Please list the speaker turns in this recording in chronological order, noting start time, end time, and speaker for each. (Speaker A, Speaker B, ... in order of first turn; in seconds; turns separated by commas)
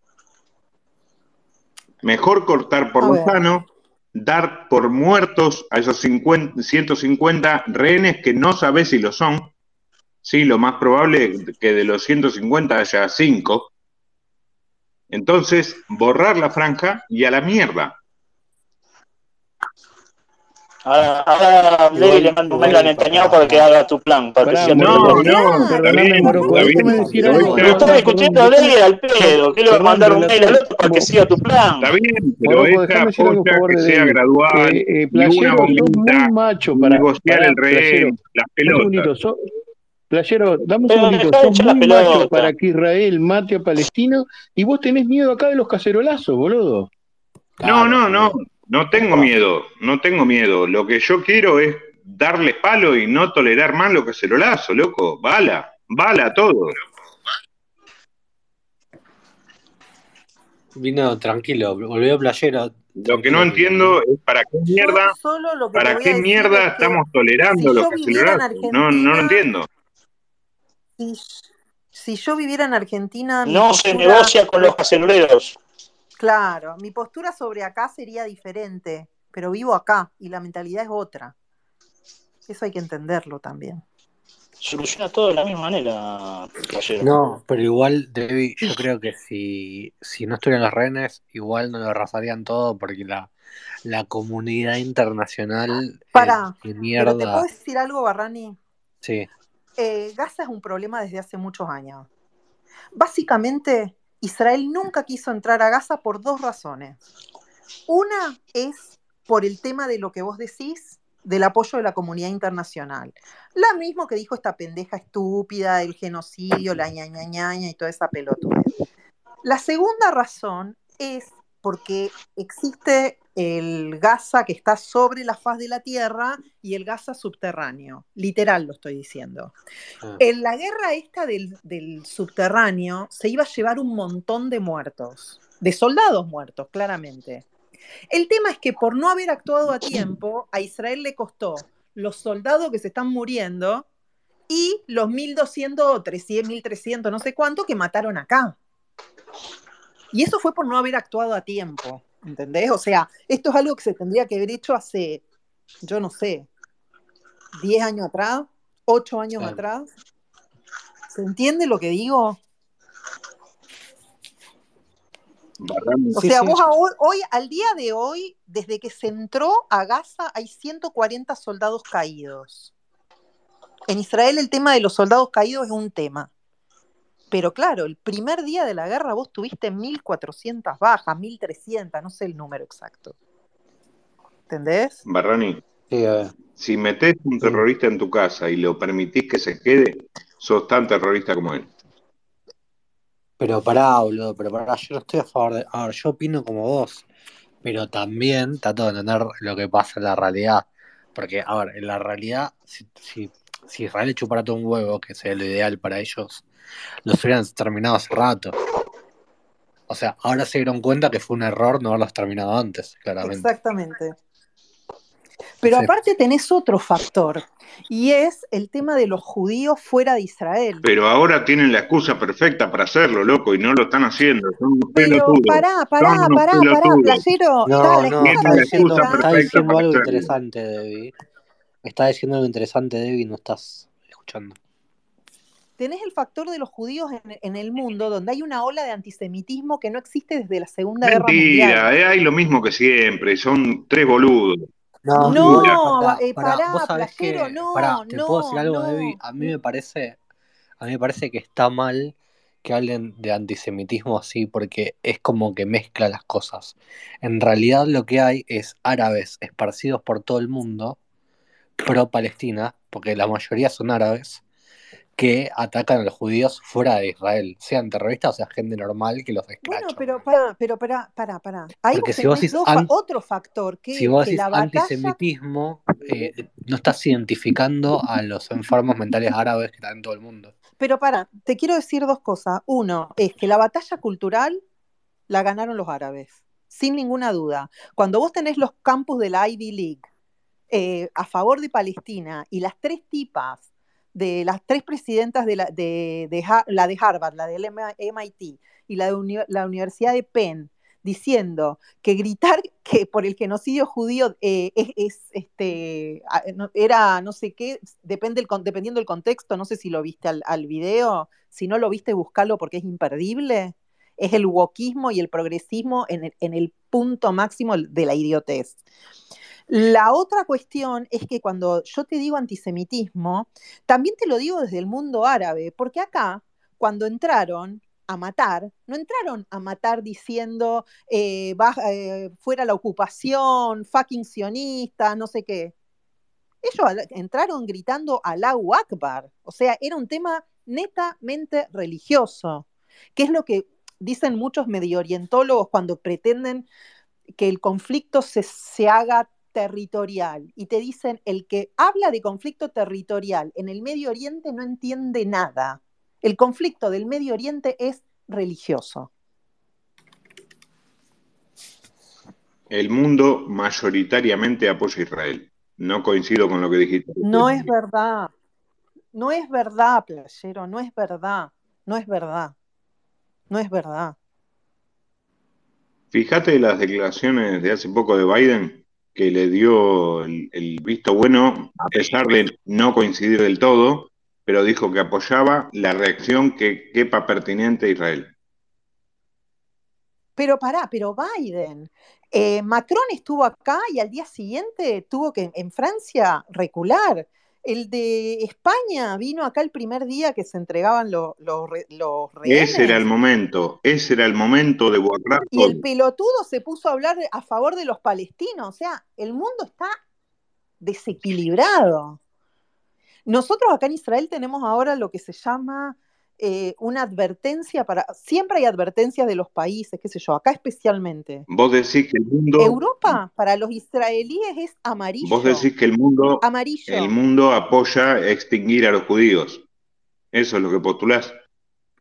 Speaker A: 2.0-9.5, Speaker B: 3.0-3.5, Speaker A: 10.2-13.7, Speaker A: 15.1-18.0, Speaker C: 20.9-25.2, Speaker D: 22.0-23.6, Speaker E: 22.6-23.6, Speaker D: 24.4-31.2, Speaker A: 24.7-27.9, Speaker B: 25.0-27.9, Speaker C: 27.5-31.9, Speaker A: 31.8-39.1, Speaker D: 32.4-39.4, Speaker D: 40.1-46.9, Speaker C: 40.9-42.5, Speaker A: 47.6-56.8, Speaker E: 47.6-48.3, Speaker E: 49.0-49.2, Speaker E: 60.8-64.0, Speaker A: 63.0-65.1, Speaker B: 64.8-69.4, Speaker A: 65.8-69.7, Speaker B: 71.0-74.8, Speaker C: 73.5-75.6, Speaker B: 76.2-81.3, Speaker B: 82.5-83.8, Speaker C: 84.6-87.1, Speaker E: 87.0-93.3, Speaker E: 93.8-97.5, Speaker B: 96.1-98.6, Speaker E: 99.0-99.3, Speaker B: 99.8-102.1, Speaker B: 103.0-107.0, Speaker B: 107.9-118.7, Speaker B: 119.4-129.6, Speaker B: 130.2-137.4, Speaker B: 138.1-143.9, Speaker B: 144.5-148.6, Speaker B: 150.1-155.2, Speaker B: 155.8-156.5, Speaker B: 157.6-159.9, Speaker B: 161.1-162.4, Speaker A: 165.6-166.6, Speaker B: 166.2-172.7, Speaker B: 173.9-176.3, Speaker B: 177.3-183.2, Speaker B: 184.5-185.0, Speaker A: 185.1-185.6, Speaker E: 185.9-186.3, Speaker A: 186.6-191.7, Speaker E: 193.4-197.1, Speaker E: 197.6-206.4, Speaker E: 207.1-208.6, Speaker E: 209.9-213.5, Speaker B: 213.2-214.2, Speaker B: 215.6-220.8, Speaker A: 220.8-227.2, Speaker B: 224.9-229.5, Speaker E: 227.7-231.1, Speaker A: 228.2-230.3, Speaker E: 231.8-234.6, Speaker B: 235.8-241.9, Speaker A: 241.0-244.6, Speaker E: 245.1-250.2, Speaker B: 245.2-249.5, Speaker A: 245.3-245.8, Speaker E: 250.8-261.0, Speaker E: 261.8-264.4, Speaker E: 265.2-270.2, Speaker B: 269.6-275.2, Speaker E: 271.9-272.9, Speaker E: 273.9-280.5, Speaker B: 280.8-284.6, Speaker B: 285.3-290.1, Speaker B: 290.7-318.8, Speaker B: 319.7-335.7, Speaker B: 336.6-346.7, Speaker B: 347.4-359.1, Speaker A: 362.7-367.7, Speaker B: 367.2-368.3, Speaker B: 369.1-372.6, Speaker B: 373.5-374.2, Speaker A: 376.1-388.3, Speaker B: 390.4-403.1, Speaker A: 402.4-405.8, Speaker B: 405.5-410.0, Speaker B: 410.8-412.2, Speaker B: 413.3-421.4, Speaker A: 421.5-423.2, Speaker B: 422.6-425.7, Speaker A: 425.2-429.6, Speaker B: 426.4-427.1, Speaker A: 430.3-431.4